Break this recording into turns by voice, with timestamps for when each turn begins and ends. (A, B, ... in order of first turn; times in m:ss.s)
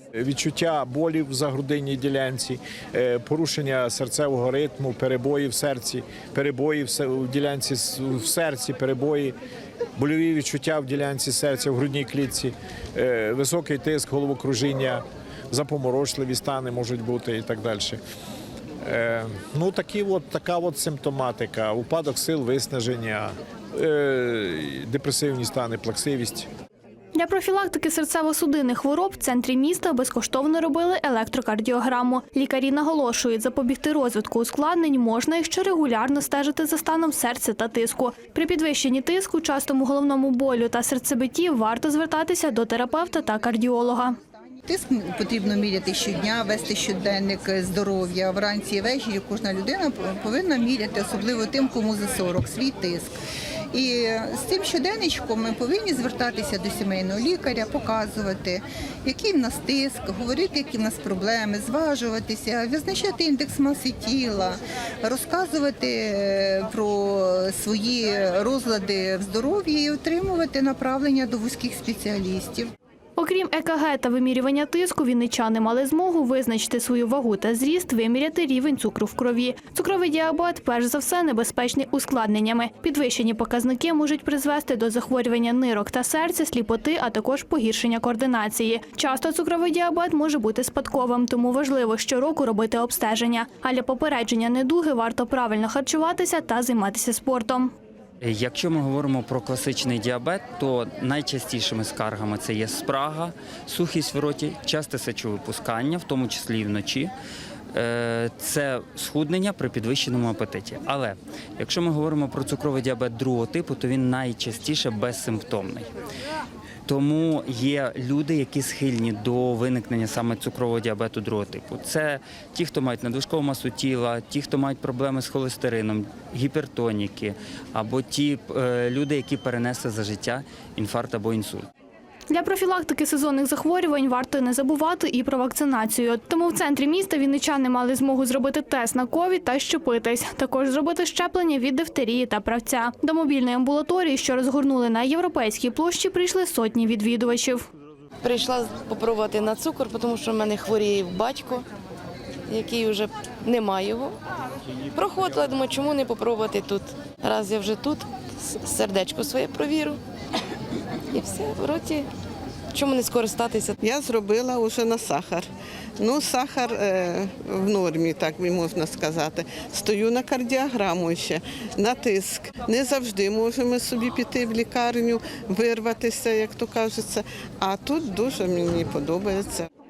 0:00.2-0:09.4 A
0:10.0-0:18.0 A
0:18.8-0:26.5 A
0:27.2-0:44.2 B
0:44.7-0:53.1 C
0:53.7-1:12.7 C
1:13.2-1:37.7 B
1:38.2-1:47.1 D
1:47.7-1:55.9 D
1:56.9-2:11.6 D
2:12.3-2:27.6 B
2:28.2-2:31.7 E
2:32.5-2:34.2 E
2:34.9-2:40.0 E
2:41.1-2:42.1 E
2:42.7-2:43.7 E
2:43.8-2:45.5 F
2:46.0-2:59.7 F